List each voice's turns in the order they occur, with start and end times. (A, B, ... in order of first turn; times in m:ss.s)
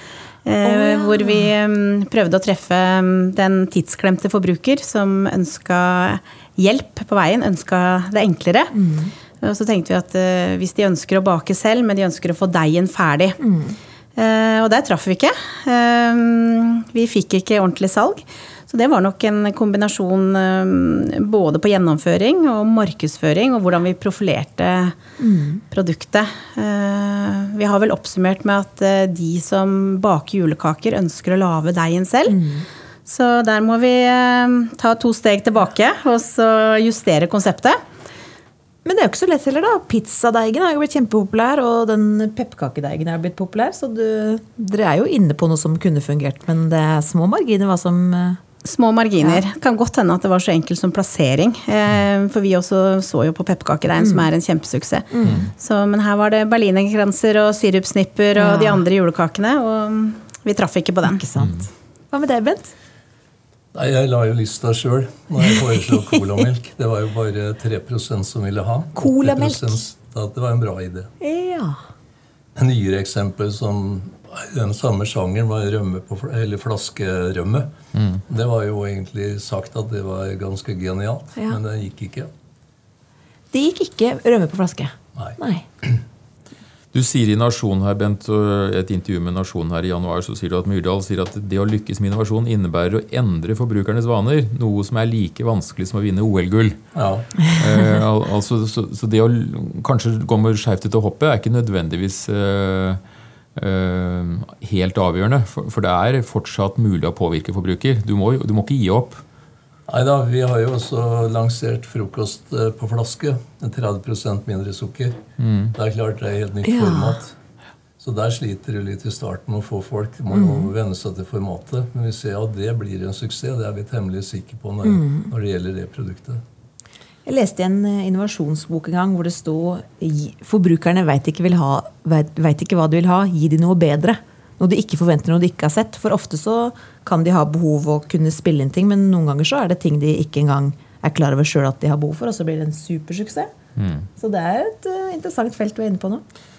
0:00.4-0:08.7 A
0:00.6-0:01.5 B
0:08.7-0:09.1 B
0:09.4-0:13.4 A
0:13.4-0:13.8 B
0:14.1-0:25.0 A
0:25.2-0:25.6 B
0:25.7-0:32.3 A
0:32.2-0:32.6 B
0:33.0-0:37.8 A
0:38.8-0:48.4 B
0:48.6-1:01.2 A
0:54.0-0:54.3 B
0:55.1-0:55.5 B
0:55.2-0:55.5 C
0:58.3-0:58.8 B
1:01.0-1:02.7 B
1:03.7-1:11.1 D
1:08.9-1:09.8 B
1:11.2-1:11.8 B
1:12.6-1:17.7 D
1:17.9-1:18.2 C
1:18.3-1:22.3 D
1:23.5-1:25.6 B
1:25.2-1:26.0 D
1:26.9-1:36.8 C
1:36.9-1:37.3 D
1:37.4-1:43.0 C
1:43.6-1:49.2 C
1:49.9-1:55.2 D
1:55.4-1:55.7 C
1:55.7-1:57.4 D
1:56.6-1:57.2 B
1:58.0-2:06.4 D
2:00.3-2:00.7 B
2:04.8-2:05.3 B
2:07.2-2:23.5 B
2:23.8-2:24.0 C
2:24.2-2:26.2 B